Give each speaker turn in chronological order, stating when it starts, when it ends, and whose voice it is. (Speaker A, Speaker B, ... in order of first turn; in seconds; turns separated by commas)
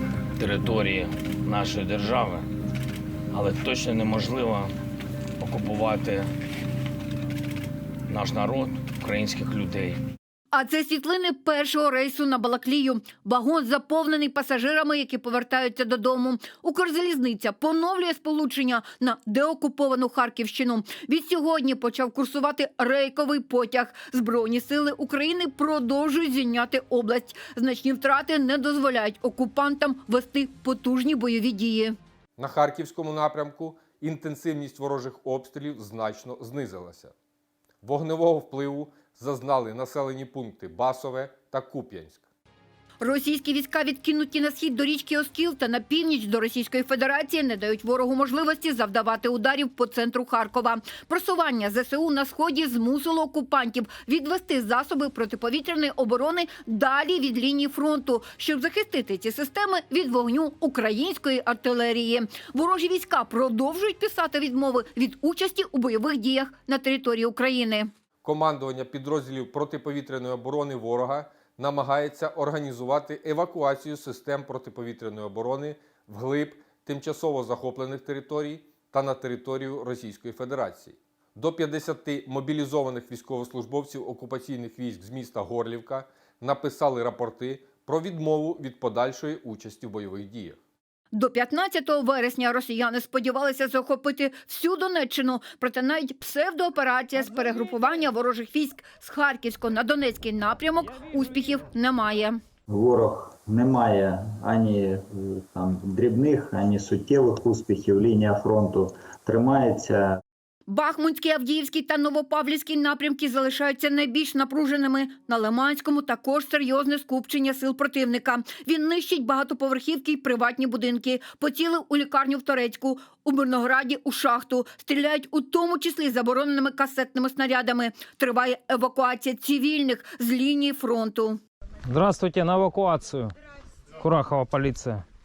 Speaker A: 0.3-2.5, Speaker A: 3.3-4.7, Speaker A: 5.4-6.3, Speaker A: 8.1-10.0, Speaker B: 10.5-31.9, Speaker C: 32.4-37.1, Speaker C: 37.8-42.2, Speaker B: 43.0-67.9, Speaker C: 68.2-90.6, Speaker B: 91.1-102.4, Speaker D: 102.7-110.2, Speaker B: 110.7-131.4, Speaker E: 131.9-133.3, Speaker E: 134.0-135.0